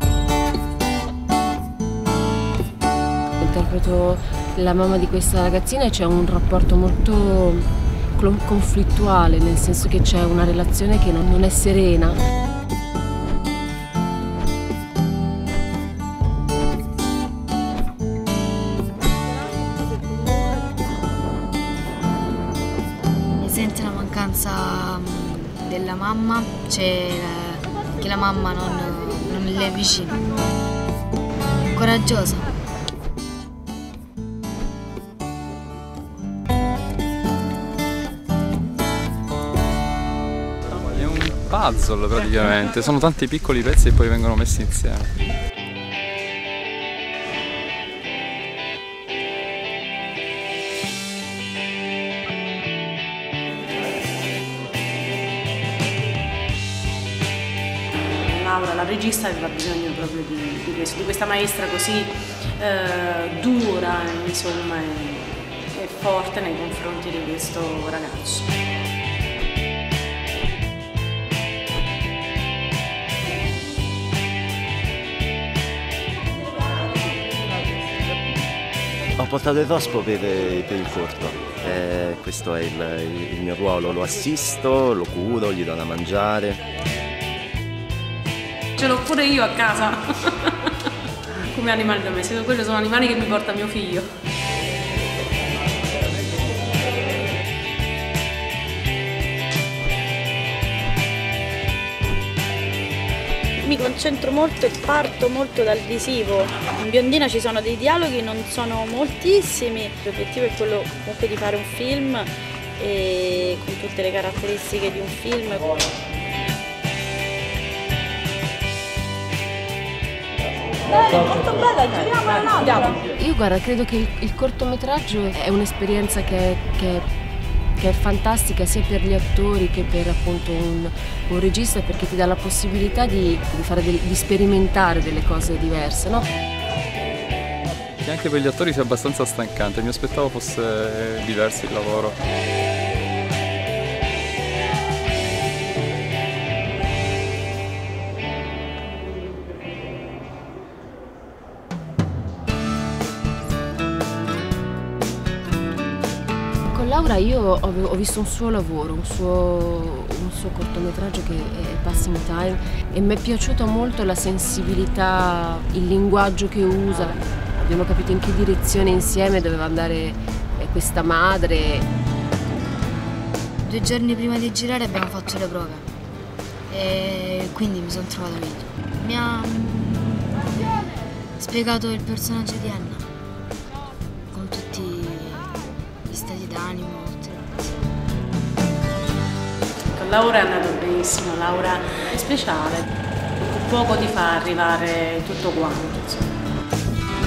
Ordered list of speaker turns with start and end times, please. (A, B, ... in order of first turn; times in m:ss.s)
0:03.4-0:12.2 A
0:23.4-0:30.2 B
0:31.7-0:32.4 B
0:40.8-0:45.1 C
0:58.1-1:08.5 D
1:19.2-1:26.6 E
1:28.8-1:30.7 D
1:31.5-1:34.1 D
1:43.6-1:55.7 F
2:01.0-2:02.8 F
2:03.0-2:07.0 A
2:07.8-2:16.2 A
2:18.0-2:22.2 C
2:36.7-2:51.8 A
2:53.6-2:55.8 B
2:56.7-3:00.3 B
3:01.4-3:03.0 B
3:04.3-3:07.8 B
3:09.9-3:12.9 D
3:13.4-3:16.3 D